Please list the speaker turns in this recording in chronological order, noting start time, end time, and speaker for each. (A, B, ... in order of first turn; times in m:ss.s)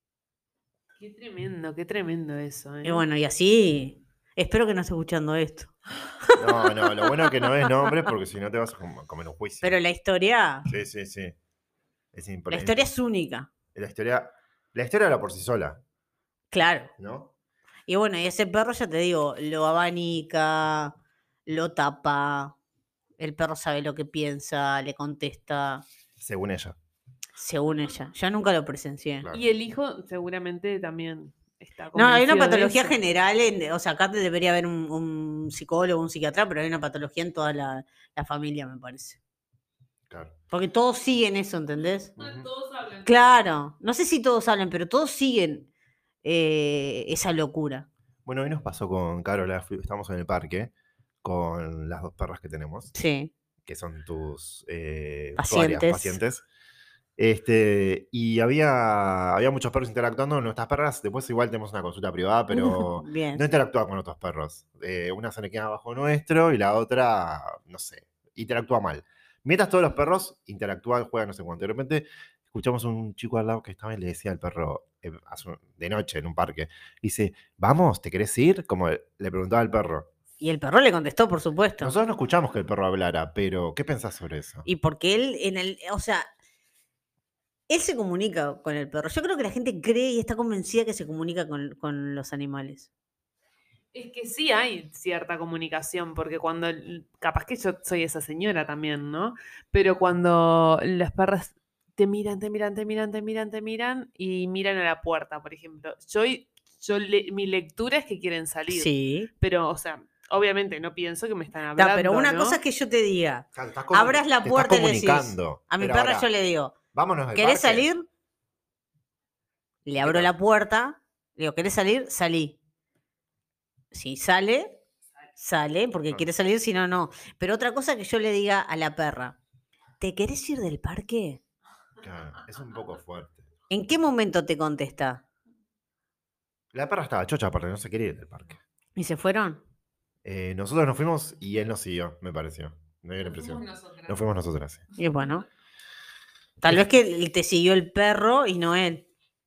0:01.0-0:03.0 A
0:02.8-0:05.7 B
0:06.3-0:08.0 B
0:06.4-0:09.7 C
0:09.6-0:10.7 B
0:10.7-0:11.4 C
0:12.1-0:12.9 C
0:12.5-0:13.5 B
0:13.7-0:15.8 C
0:16.5-0:16.9 B
0:17.0-0:17.3 C
0:17.9-0:21.0 B
0:21.5-0:22.6 B
0:23.2-0:25.8 B
0:26.2-0:26.8 C
0:27.4-0:29.3 B
0:29.3-0:33.0 A
0:32.0-0:39.2 B
0:40.5-0:42.1 B
0:42.2-0:42.5 C
0:42.2-0:43.4 A
0:43.0-0:45.7 B
0:46.2-0:47.9 B
0:48.2-0:50.7 C
0:51.2-0:52.9 C
0:52.9-0:53.3 B
0:53.6-0:56.4 C
0:55.4-0:56.2 B
0:57.2-1:20.1 C
1:02.5-1:03.4 B
1:20.4-1:21.9 B
1:21.8-1:24.7 C
1:24.7-1:26.3 B
1:27.7-1:32.9 B
1:33.9-1:52.6 A
1:48.7-1:49.3 B
1:51.8-1:56.8 B
1:53.5-1:56.3 C
1:56.9-1:57.9 C
1:57.3-1:58.0 B
1:59.9-2:02.6 B
2:00.0-2:00.3 C
2:03.9-2:04.8 B
2:05.4-2:09.4 B
2:10.0-2:11.4 B
2:12.0-2:13.5 C
2:13.7-2:15.2 B
2:16.7-2:18.6 C
2:19.0-2:19.6 B
2:20.2-2:24.8 C
2:23.3-2:24.2 A
2:25.0-2:25.5 B
2:26.6-2:29.1 B